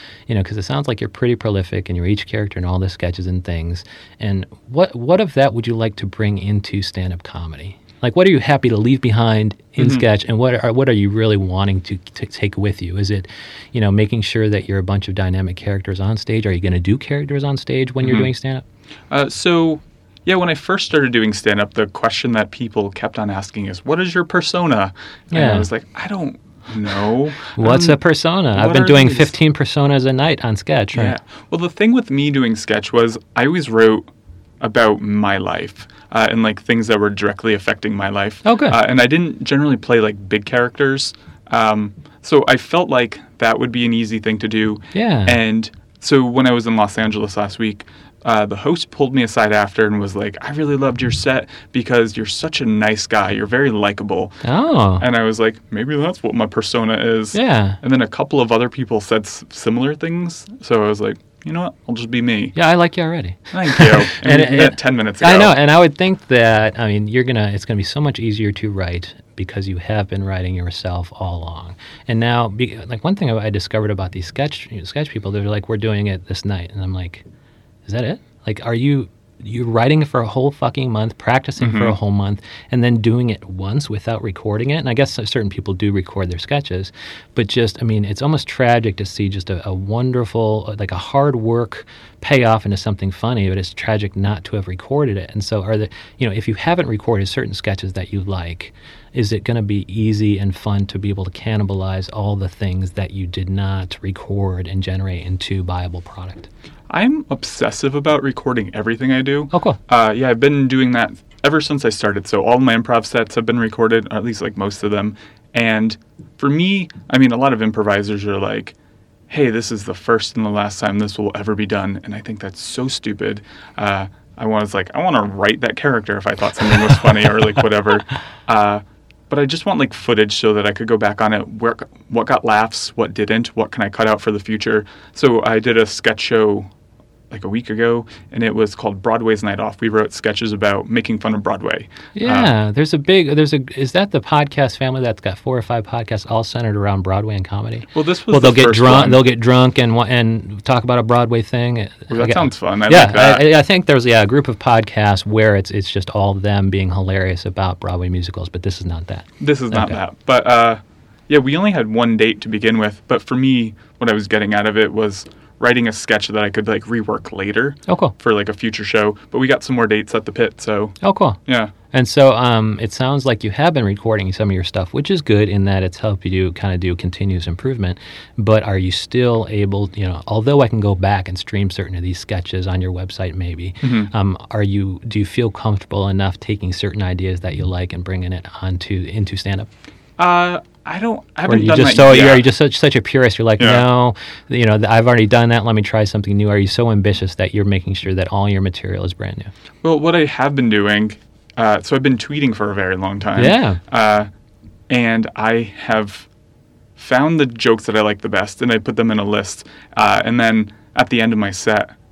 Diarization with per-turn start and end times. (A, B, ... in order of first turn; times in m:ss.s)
0:00.3-0:18.6 A
0:09.8-0:10.0 B
0:18.0-0:18.3 B
0:19.1-0:28.0 B
0:25.3-0:25.7 A
0:27.6-0:31.1 A
0:28.5-0:29.3 B
0:30.9-0:54.4 B
0:38.4-0:38.8 A
0:44.9-0:45.4 A
0:54.4-0:55.0 A
0:55.0-1:02.6 B
0:57.3-0:57.8 A
1:02.5-1:17.2 A
1:03.5-1:05.6 B
1:17.8-1:46.5 A
1:21.6-1:21.9 B
1:46.9-1:58.8 B
1:49.5-1:49.8 A
1:59.3-2:16.7 B
2:17.3-2:22.5 B
2:22.1-2:40.0 A
2:27.9-2:29.2 B
2:32.1-2:33.5 B
2:39.4-2:51.7 B
2:47.9-2:48.1 A
2:51.0-2:51.4 A
2:51.9-3:09.7 A
3:03.8-3:04.1 B
3:10.2-3:12.5 B
3:11.5-3:19.5 A
3:13.6-3:13.8 B
3:19.8-3:24.3 B
3:23.4-3:23.8 A
3:24.9-3:26.3 B
3:27.0-3:31.9 B